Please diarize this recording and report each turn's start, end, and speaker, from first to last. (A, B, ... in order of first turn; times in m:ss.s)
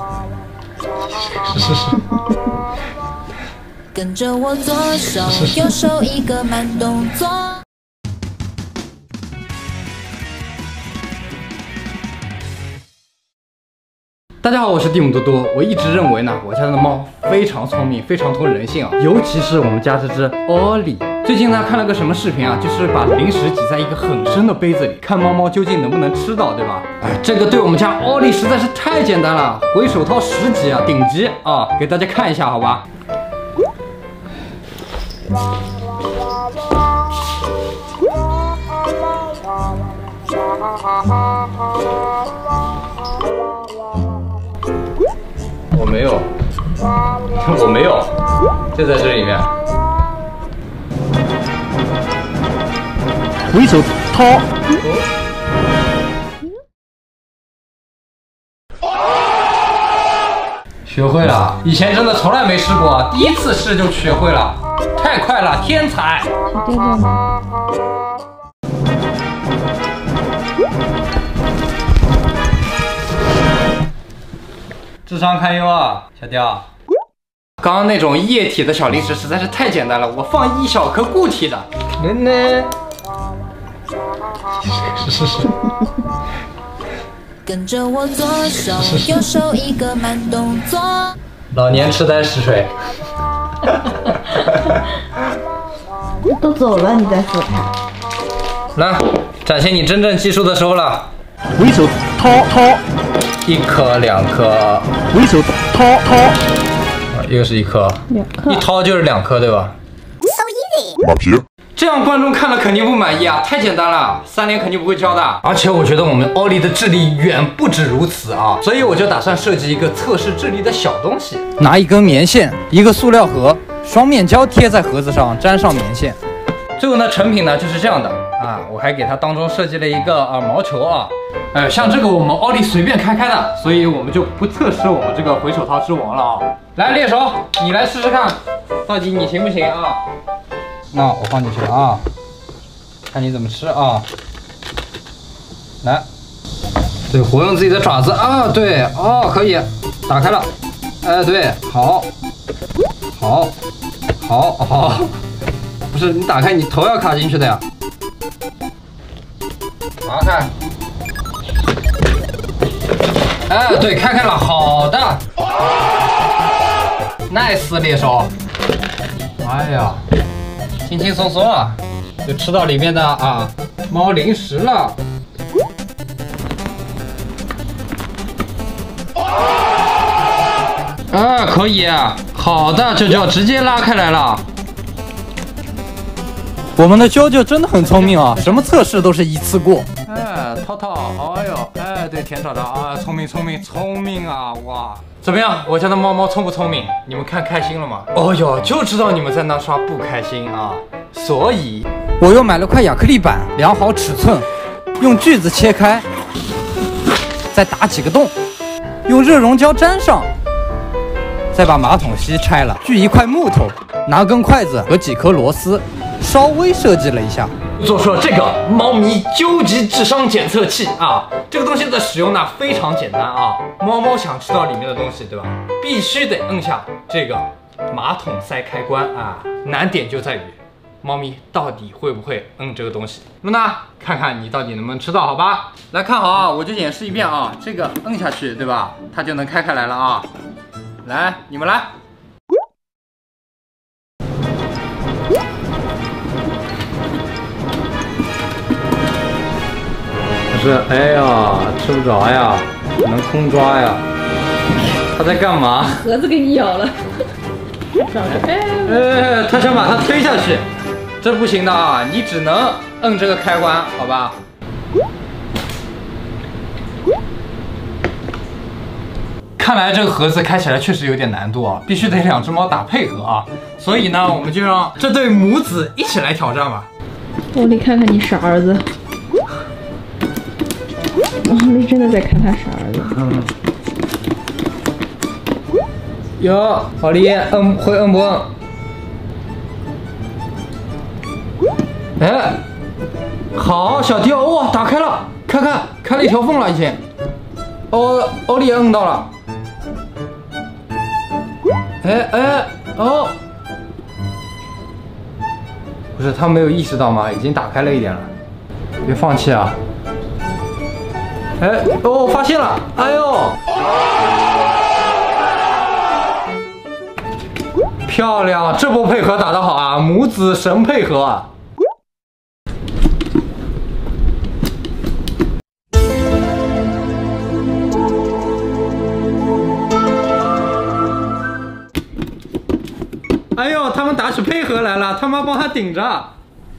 0:01.1-0:02.0 A
0:03.9-0:07.6 B
0:14.4-0:32.8 A
0:45.7-0:46.3 A
0:47.3-0:48.2 A
0:48.7-0:49.5 A
0:53.6-0:54.2 C
0:54.7-0:55.0 A
1:00.9-1:06.3 A
1:06.5-1:07.2 D
1:15.0-1:16.7 A
1:17.6-1:22.7 A
1:24.7-1:25.5 A
1:27.4-1:31.2 B
1:31.5-1:32.7 A
1:33.7-1:34.7 A
1:36.3-1:37.6 D
1:38.8-1:41.1 A
1:41.6-1:42.5 C
1:43.4-1:45.0 A
1:45.3-1:46.0 C
1:47.1-1:49.8 A
1:48.1-1:48.6 D
1:51.8-2:06.2 A
2:06.8-2:20.0 A
2:20.9-2:22.0 A
2:23.1-2:24.0 A
2:27.1-2:30.5 A
2:31.0-2:32.1 A
2:33.2-2:33.5 A
2:34.2-2:35.2 A
2:35.9-2:37.6 A
2:40.0-2:40.5 A
2:43.5-2:45.2 A
2:47.3-2:48.3 A
2:49.4-2:50.0 A
2:50.8-2:55.0 A
3:01.1-3:04.4 A
3:06.8-3:24.5 A
3:25.0-3:26.0 A
3:27.5-3:28.3 A
3:29.0-3:30.3 A
3:31.5-4:00.3 A
4:01.0-4:01.9 A
4:10.5-4:14.0 A
4:15.0-4:16.1 A
4:15.9-4:17.0 D
4:18.0-4:19.1 D
4:18.8-4:20.6 A
4:21.2-4:24.4 A
4:29.6-4:36.9 A
4:37.5-4:38.9 D
4:41.4-4:43.2 D
4:43.0-4:43.5 A
4:46.4-4:48.5 A
4:52.2-4:52.6 A
4:53.5-4:57.0 A
4:57.9-4:59.3 A
5:02.0-5:03.4 A
5:06.1-5:08.3 A
5:09.0-5:09.8 A
5:11.6-5:13.6 A
5:18.0-5:21.5 A
5:33.5-5:36.3 A